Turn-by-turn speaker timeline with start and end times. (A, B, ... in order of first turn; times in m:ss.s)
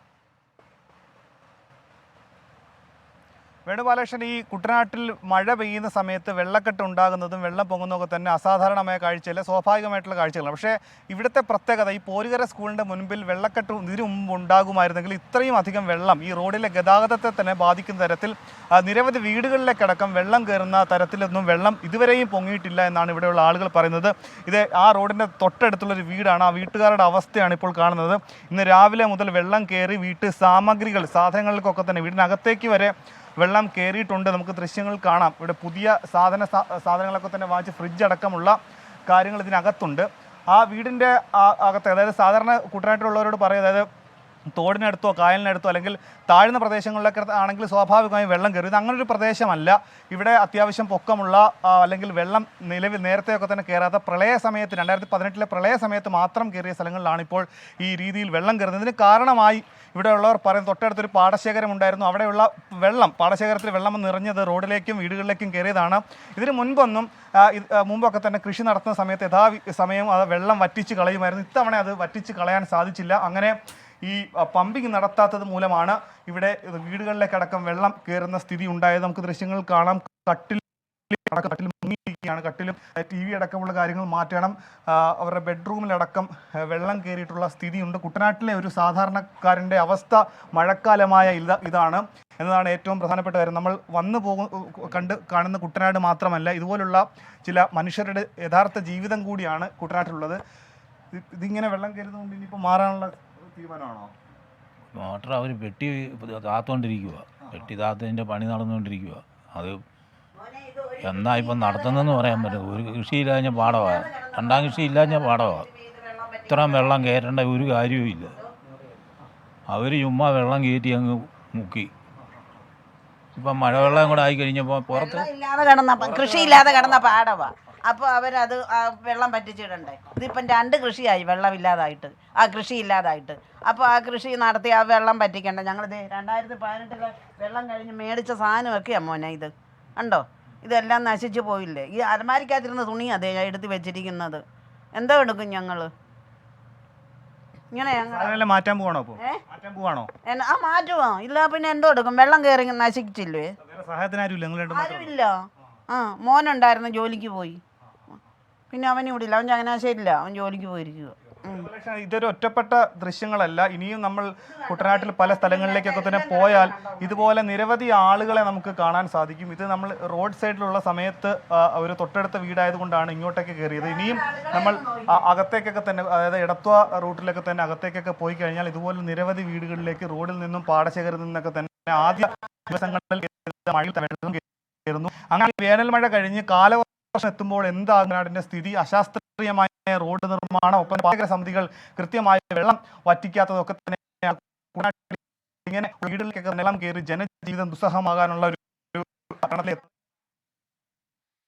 0:03.7-0:43.9 A
0:44.6-1:40.4 A
1:41.1-1:44.1 A
1:45.0-1:49.8 B
1:50.4-1:52.8 C
1:51.0-1:55.7 B
1:53.4-1:57.1 C
1:56.5-1:58.4 B
1:59.7-2:01.9 B
2:03.4-2:05.3 B
2:03.6-2:04.3 C
2:04.9-2:24.4 C
2:25.0-2:25.9 C
2:27.7-2:28.4 C
2:28.0-2:30.1 A
2:30.3-2:33.5 C
2:33.6-2:35.1 A
2:34.7-2:37.6 C
2:38.7-2:41.7 C
2:41.4-3:19.8 A
2:44.5-2:47.3 C
2:53.8-2:55.2 C